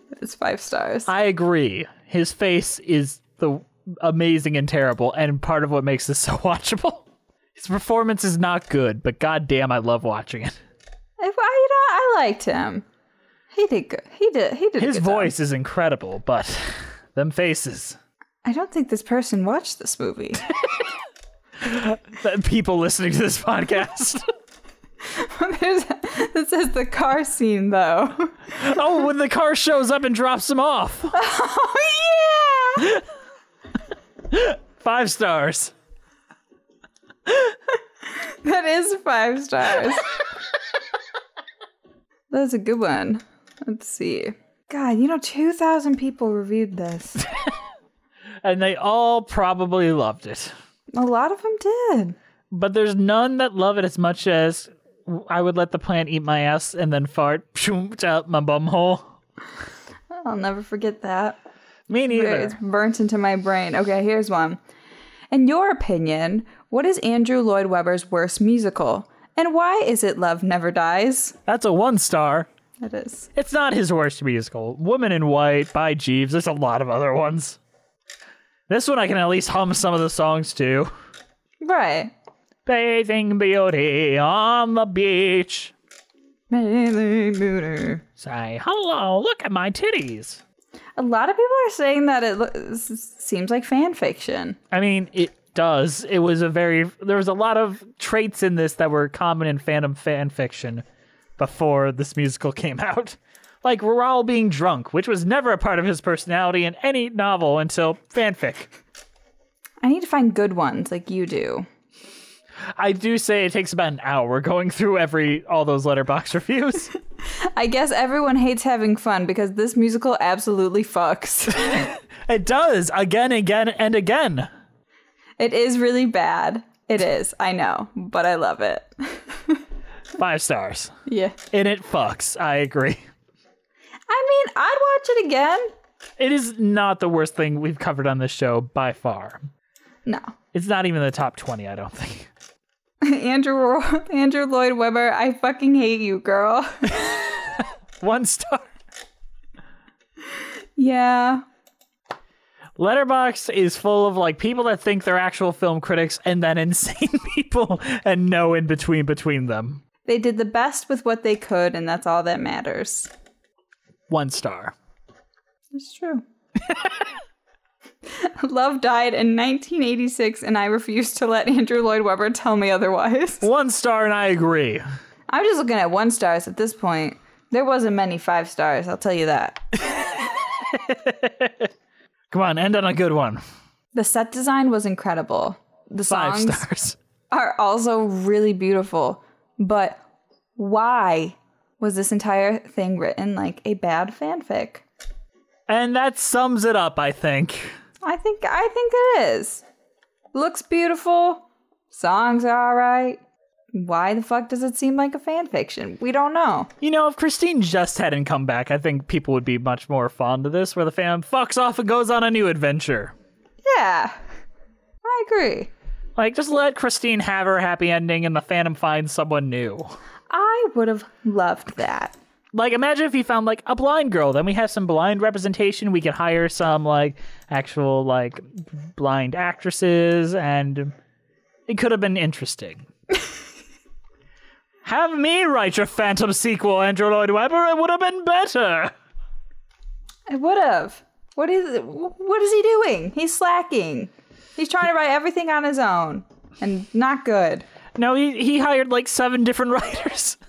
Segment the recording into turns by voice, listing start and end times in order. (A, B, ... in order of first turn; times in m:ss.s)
0:00.1-0:01.1 A
0:01.1-0:07.0 B
0:07.6-0:10.6 B
0:11.2-0:12.9 A
0:13.5-0:15.3 A
0:14.8-0:18.0 B
0:18.4-0:20.4 A
0:21.6-0:24.3 B
0:25.0-0:28.6 A
0:28.6-0:31.2 B
0:31.1-0:32.9 A
0:34.3-0:35.7 B
0:38.2-0:40.1 A
0:42.3-0:47.2 A
0:48.4-0:50.5 B
0:50.9-0:52.2 A
0:52.5-0:59.1 B
1:00.1-1:01.4 A
1:01.9-1:02.6 B
1:02.1-1:04.6 A
1:05.3-1:11.4 A
1:11.5-1:12.5 B
1:12.8-1:13.3 A
1:13.4-1:17.6 B
1:18.7-1:20.9 B
1:21.6-1:22.1 A
1:22.7-1:25.7 B
1:26.5-1:28.0 A
1:28.2-1:30.4 B
1:31.0-1:34.6 A
1:34.7-1:40.8 B
1:41.4-1:48.7 B
1:49.8-1:51.7 A
1:52.8-1:56.9 B
1:57.2-2:01.9 A
2:01.6-2:04.5 B
2:05.4-2:09.6 A
2:10.2-2:10.9 B
2:11.1-2:11.4 A
2:11.5-2:13.1 B
2:14.1-2:15.7 A
2:16.2-2:19.5 B
2:20.1-2:20.3 A
2:20.5-2:22.3 B
2:23.0-2:26.9 A
2:27.0-2:28.7 B
2:30.8-2:31.4 A
2:32.8-2:39.8 B
2:40.0-2:43.1 A
2:44.1-2:44.8 B
2:45.7-2:46.2 A
2:46.7-2:46.9 B
2:48.0-2:53.5 A
2:53.4-2:54.8 B
2:55.3-2:59.6 A
2:59.9-3:01.7 B
3:02.3-3:03.4 B
3:03.9-3:06.7 A
3:06.1-3:07.0 B
3:07.3-3:10.0 A
3:10.6-3:14.8 A
3:15.7-3:17.8 B
3:18.0-3:19.6 A
3:20.3-3:23.2 A
3:23.7-3:26.7 A
3:26.8-3:33.1 B
3:33.6-3:34.2 A
3:35.0-3:35.7 A
3:36.2-3:39.9 B
3:40.3-3:42.2 A
3:42.5-3:50.9 B
3:51.7-3:52.9 B
3:54.8-3:58.9 B
4:00.3-4:07.7 A
4:08.0-4:10.4 B